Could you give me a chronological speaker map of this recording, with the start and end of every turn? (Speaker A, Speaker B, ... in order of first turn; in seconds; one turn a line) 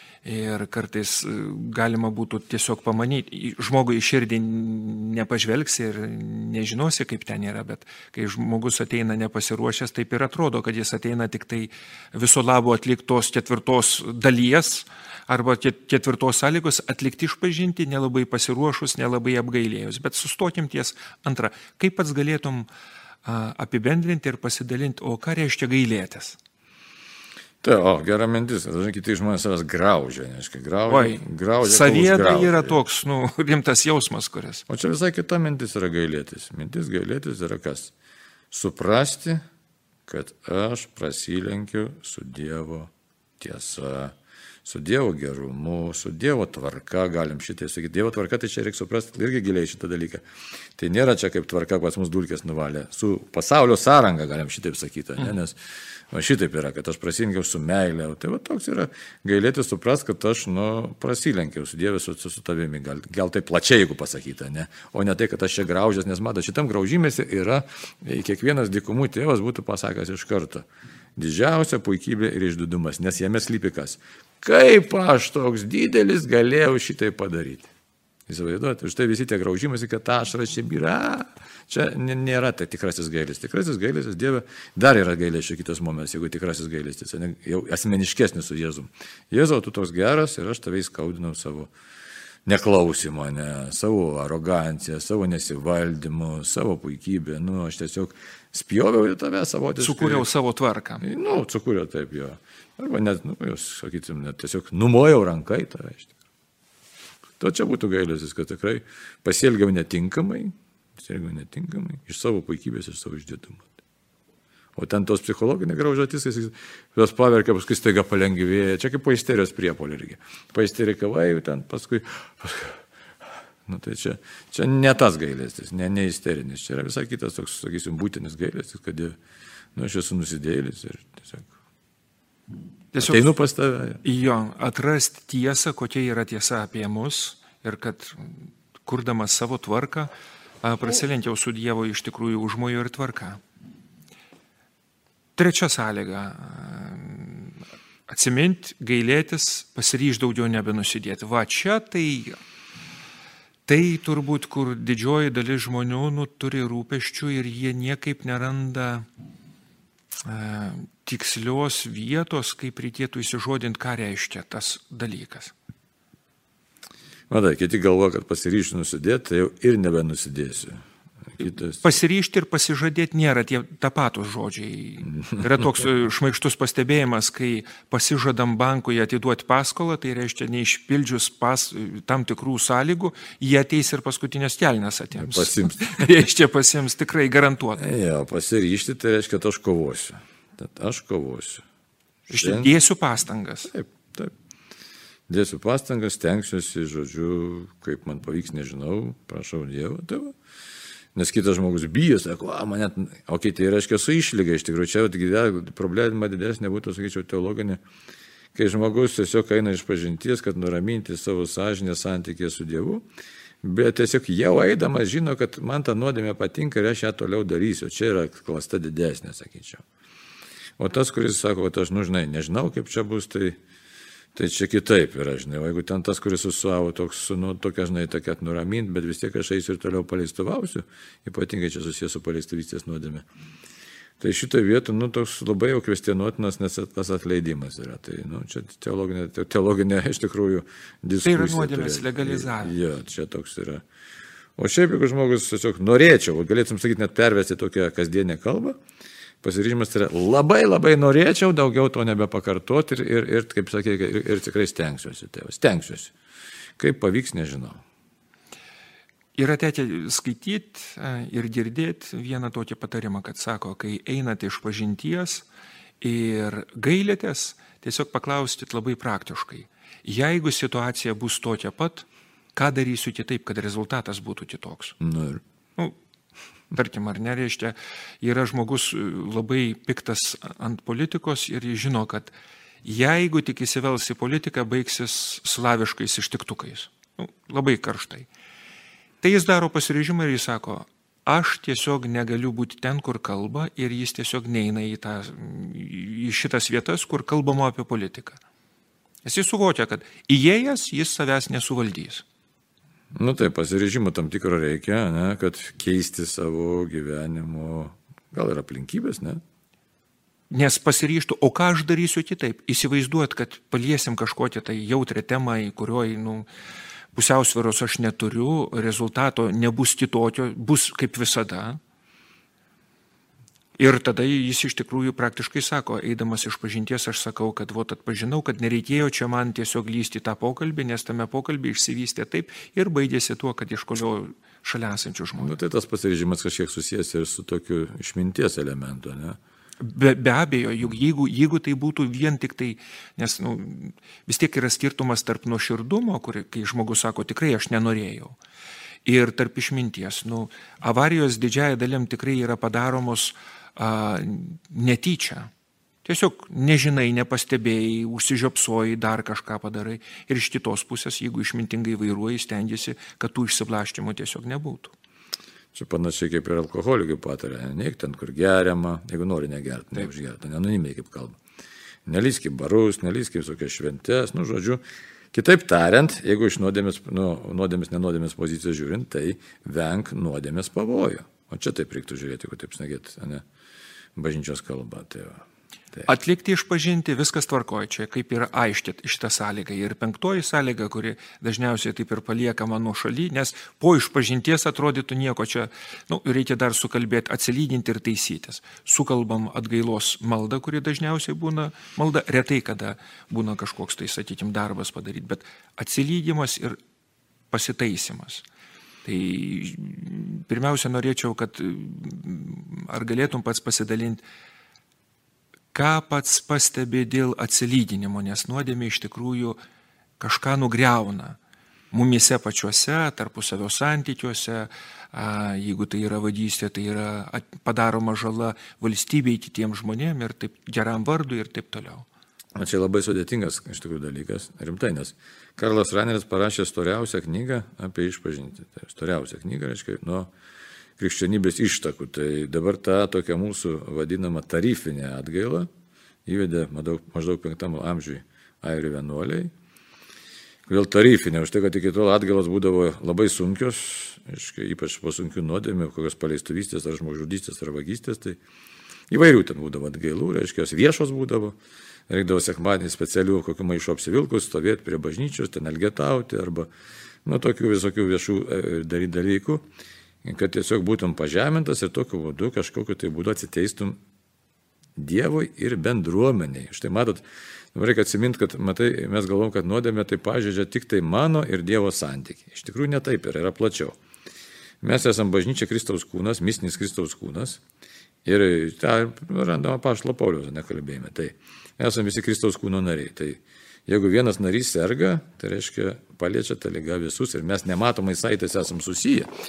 Speaker A: 0.2-22.7
Speaker A: 23.2-26.4
Speaker B: 27.6-32.8
Speaker A: 30.9-34.6
Speaker B: 34.7-37.9
Speaker B: 38.5-39.4
Speaker B: 40.1-50.2
Speaker B: 50.8-55.6
Speaker B: 56.1-77.7
Speaker B: 78.3-91.7
Speaker B: 92.5-100.3
Speaker A: 99.8-101.0
Speaker B: 101.0-106.1
Speaker B: 107.4-113.8
Speaker B: 114.8-122.8
Speaker B: 123.7-129.2
Speaker B: 129.8-131.5
Speaker A: 132.9-133.3
Speaker B: 133.0-134.0
Speaker A: 134.0-140.1
Speaker A: 140.6-143.4
Speaker A: 145.3-147.6
Speaker A: 148.1-152.4
Speaker A: 153.7-159.1
Speaker A: 160.2-165.5
Speaker B: 167.3-170.8
Speaker B: 171.3-171.8
Speaker A: 171.8-187.8
Speaker B: 185.2-186.1
Speaker B: 187.8-191.6
Speaker A: 192.3-193.7
Speaker B: 192.3-192.7
Speaker B: 193.7-194.3
Speaker B: 195.3-200.3
Speaker B: 201.1-207.8
Speaker B: 208.5-213.1
Speaker B: 213.6-219.8
Speaker B: 220.8-223.6
Speaker B: 224.3-233.2
Speaker B: 234.2-243.8
Speaker A: 241.2-242.8
Speaker B: 244.6-248.8
Speaker B: 249.4-256.1
Speaker B: 256.8-257.8
Speaker A: 259.3-265.4
Speaker A: 266.0-275.0
Speaker B: 275.0-275.4
Speaker A: 276.7-282.3
Speaker A: 282.8-288.3
Speaker A: 289.2-298.4
Speaker A: 299.2-302.2
Speaker B: 303.1-309.4
Speaker A: 310.5-316.5
Speaker A: 317.1-321.8
Speaker A: 323.8-335.6
Speaker B: 335.4-339.4
Speaker A: 339.8-348.4
Speaker A: 349.0-355.5
Speaker A: 356.0-364.9
Speaker B: 365.7-371.4
Speaker B: 372.1-374.8
Speaker B: 375.3-383.4
Speaker B: 384.1-385.4
Speaker A: 386.1-406.8
Speaker A: 407.5-408.4
Speaker A: 409.0-414.2
Speaker A: 415.7-419.6
Speaker A: 420.2-421.4
Speaker A: 421.9-432.1
Speaker B: 432.6-440.3
Speaker B: 441.0-445.7
Speaker B: 446.2-449.5
Speaker B: 450.7-458.4
Speaker B: 459.1-461.6
Speaker B: 462.1-466.7
Speaker B: 467.2-469.6
Speaker B: 470.2-474.0
Speaker B: 475.0-484.0
Speaker B: 484.8-487.6
Speaker B: 488.2-499.3